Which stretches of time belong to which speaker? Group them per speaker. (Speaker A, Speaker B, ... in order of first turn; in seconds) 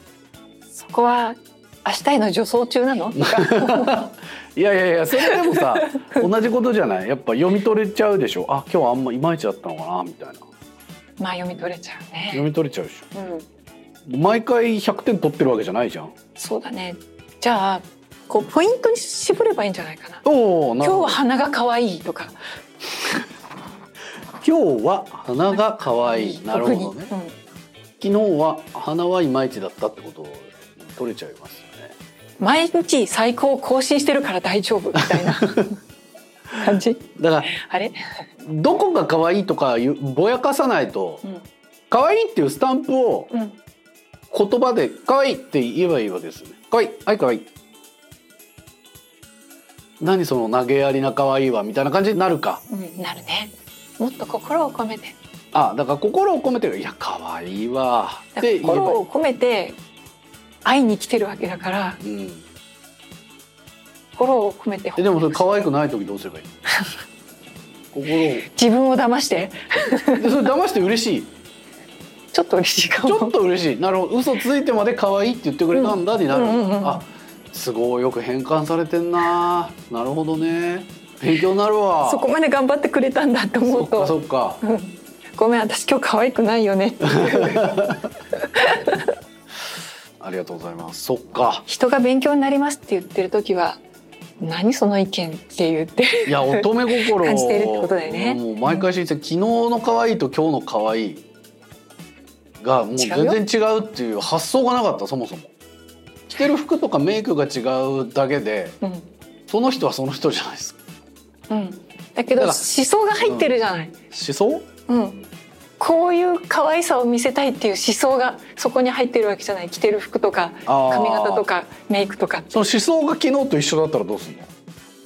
Speaker A: 0.7-4.1, 5.3-6.2, 11.2-12.5, 13.1-13.4, 16.4-20.2, 20.8-22.4, 25.5-27.3, 32.4-35.8, 36.5-38.0, 43.3-43.6, 52.7-55.1, 58.4-59.8, 60.6-62.0, 64.2-65.3, 68.5-70.3, 72.3-73.3, 75.7-77.0, 82.0-87.8, 88.4-89.1, 91.7-93.8, 94.4-98.9, 103.0-103.4, 108.8-109.1, 111.5-114.0, 114.9-115.3, 115.8-122.6
Speaker B: 3.2-10.4, 12.3-13.1, 14.1-16.1, 20.2-21.2, 24.4-27.1, 28.0-31.9, 35.0-35.7, 37.2-37.5, 38.4-41.2, 41.9-43.3, 44.3-47.5, 50.0-52.6, 55.5-59.0, 62.0-62.5, 65.0-66.5, 67.9-68.5, 70.2-71.3, 73.0-82.3, 83.6-84.6, 87.1-88.1, 90.2-91.7, 96.2-101.2, 102.6-105.5, 106.3-108.8, 109.5-110.8, 112.3-113.5, 114.1-114.7, 120.7-121.5, 122.5-124.5